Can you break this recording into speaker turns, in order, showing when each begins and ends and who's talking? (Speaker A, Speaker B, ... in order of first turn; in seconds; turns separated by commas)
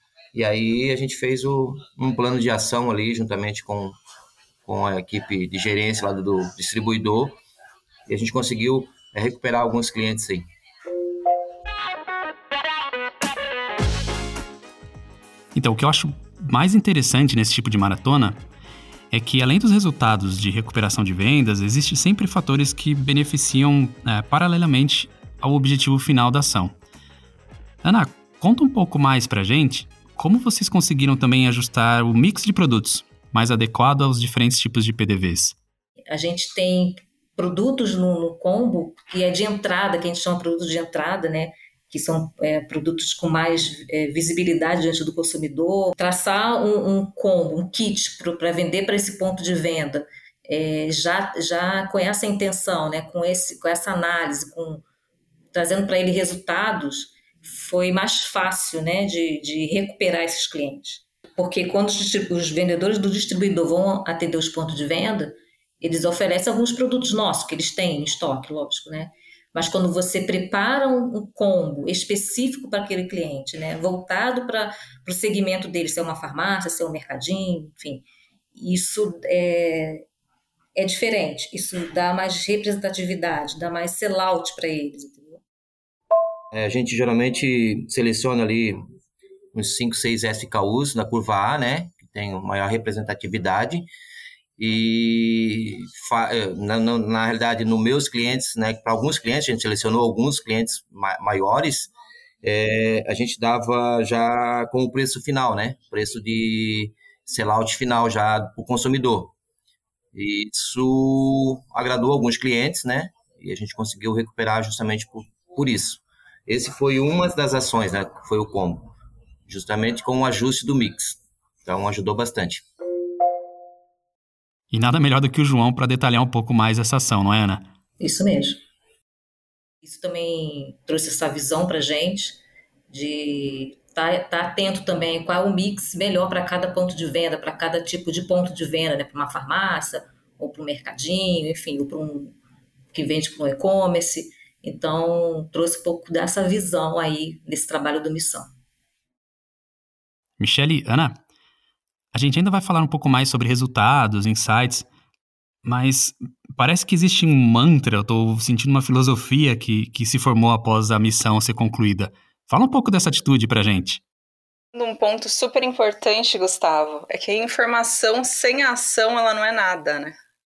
Speaker A: 0.3-4.0, Speaker A: 4.7-7.4, Speaker A: 8.1-10.5, Speaker B: 15.6-18.4, Speaker B: 19.1-26.7, Speaker B: 27.8-35.6, Speaker C: 36.1-54.8, Speaker C: 55.5-80.0, Speaker C: 80.8-85.4, Speaker A: 86.5-88.8, Speaker A: 89.5-93.9, Speaker A: 94.6-101.9, Speaker A: 102.4-109.3, Speaker A: 110.1-119.0, Speaker A: 119.5-122.7, Speaker B: 124.7-127.6, Speaker C: 128.0-128.6, Speaker C: 129.8-132.4, Speaker C: 132.9-142.4, Speaker C: 142.9-148.5, Speaker B: 150.4-151.2, Speaker B: 152.1-154.9, Speaker B: 155.7-164.0, Speaker D: 164.7-170.2